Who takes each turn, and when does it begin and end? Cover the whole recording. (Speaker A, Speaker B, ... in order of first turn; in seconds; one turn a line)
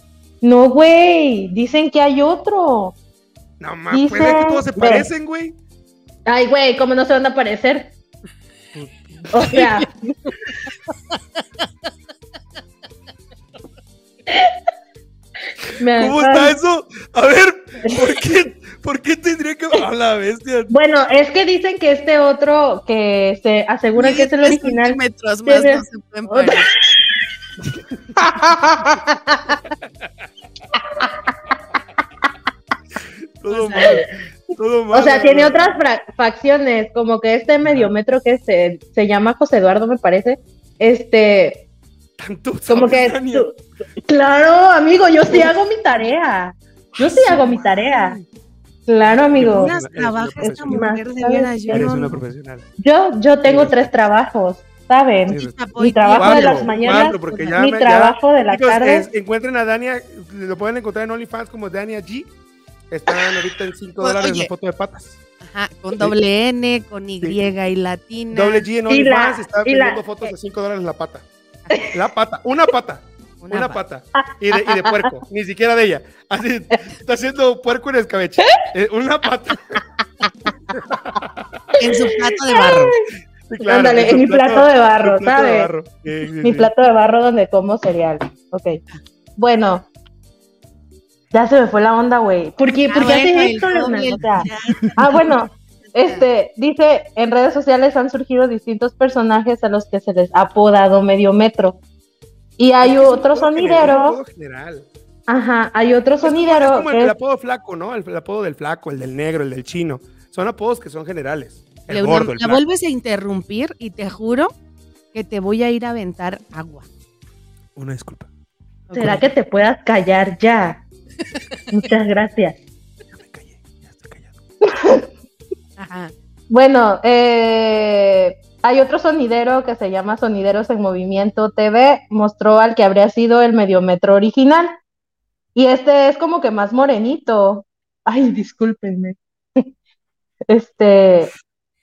Speaker A: 0.4-3.0
Speaker B: 3.6-5.6
Speaker A: 3.9-5.1
Speaker A: 6.3-7.9
Speaker B: 8.7-9.6
Speaker A: 9.3-10.1
Speaker A: 15.8-16.6
Speaker B: 15.9-20.7
Speaker A: 20.7-26.8
Speaker C: 24.0-26.7
Speaker B: 27.6-28.0
Speaker A: 28.2-29.6
Speaker A: 30.9-31.1
Speaker B: 33.4-35.8
Speaker C: 33.5-34.0
Speaker A: 33.8-34.1
Speaker A: 34.9-41.7
Speaker B: 37.6-37.9
Speaker B: 42.2-43.5
Speaker A: 42.7-48.2
Speaker B: 47.0-48.3
Speaker A: 48.9-49.7
Speaker B: 49.3-50.9
Speaker C: 49.4-52.2
Speaker A: 50.6-51.9
Speaker B: 51.7-52.7
Speaker A: 52.8-59.1
Speaker B: 53.4-53.9
Speaker B: 55.3-55.5
Speaker C: 55.3-57.5
Speaker B: 56.1-62.3
Speaker B: 62.9-65.2
Speaker C: 64.0-64.5
Speaker C: 65.4-68.7
Speaker B: 68.3-71.3
Speaker A: 68.9-70.3
Speaker B: 71.9-79.8
Speaker C: 73.4-73.8
Speaker A: 74.2-75.1
Speaker B: 80.7-81.5
Speaker C: 81.8-83.0
Speaker A: 82.5-83.0
Speaker B: 83.5-86.7
Speaker A: 83.6-85.7
Speaker A: 86.4-88.8
Speaker A: 89.4-89.9
Speaker A: 91.3-101.8
Speaker C: 92.9-95.3
Speaker C: 95.9-96.2
Speaker A: 102.6-104.2
Speaker B: 102.8-104.9
Speaker A: 105.3-107.1
Speaker B: 106.2-112.6
Speaker C: 111.9-114.5
Speaker C: 115.1-116.9
Speaker B: 117.8-118.3
Speaker C: 118.9-119.3
Speaker A: 118.9-120.8
Speaker A: 121.7-122.6
Speaker B: 123.1-124.4
Speaker A: 124.7-125.1
Speaker C: 125.8-126.1
Speaker A: 126.5-134.8
Speaker A: 135.6-139.6
Speaker A: 140.5-141.3